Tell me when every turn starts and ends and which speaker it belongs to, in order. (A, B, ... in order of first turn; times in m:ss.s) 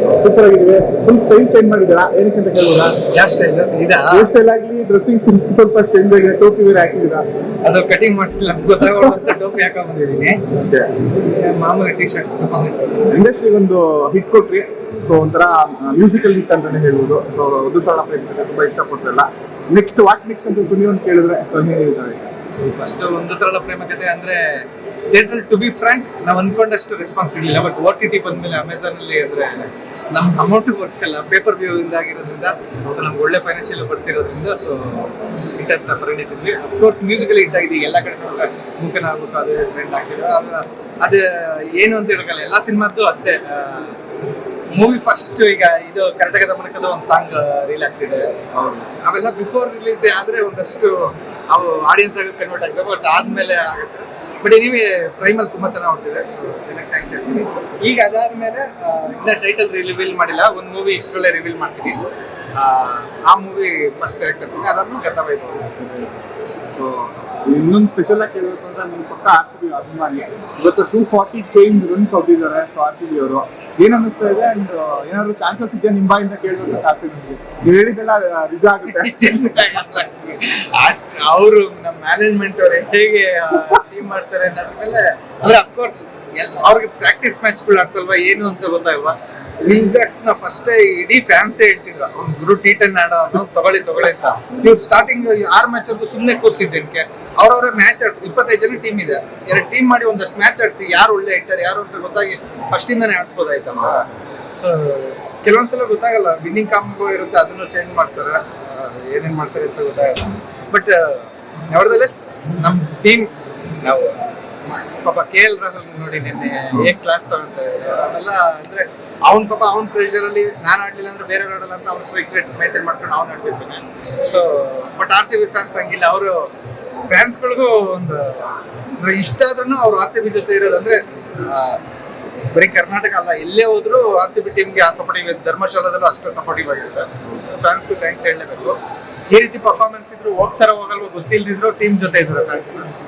0:00.2-0:03.0 A
0:03.0-0:04.3 B
0:04.1-0:07.2 A
0:07.6-0:10.4 B
0:10.6-0:10.9 A
0:11.2-0:13.2 B
0:13.1-0:22.3 A
0:22.5-0:44.0 B
0:44.7-0:48.3 B
0:48.5-0:48.8 A
0:48.9-1:02.0 B
1:02.5-1:06.1 B
1:06.7-1:19.6 A
1:18.9-1:54.2 B
1:55.0-2:06.5 B
2:07.1-2:11.8 B
2:12.5-2:18.8 B
2:19.3-2:22.9 B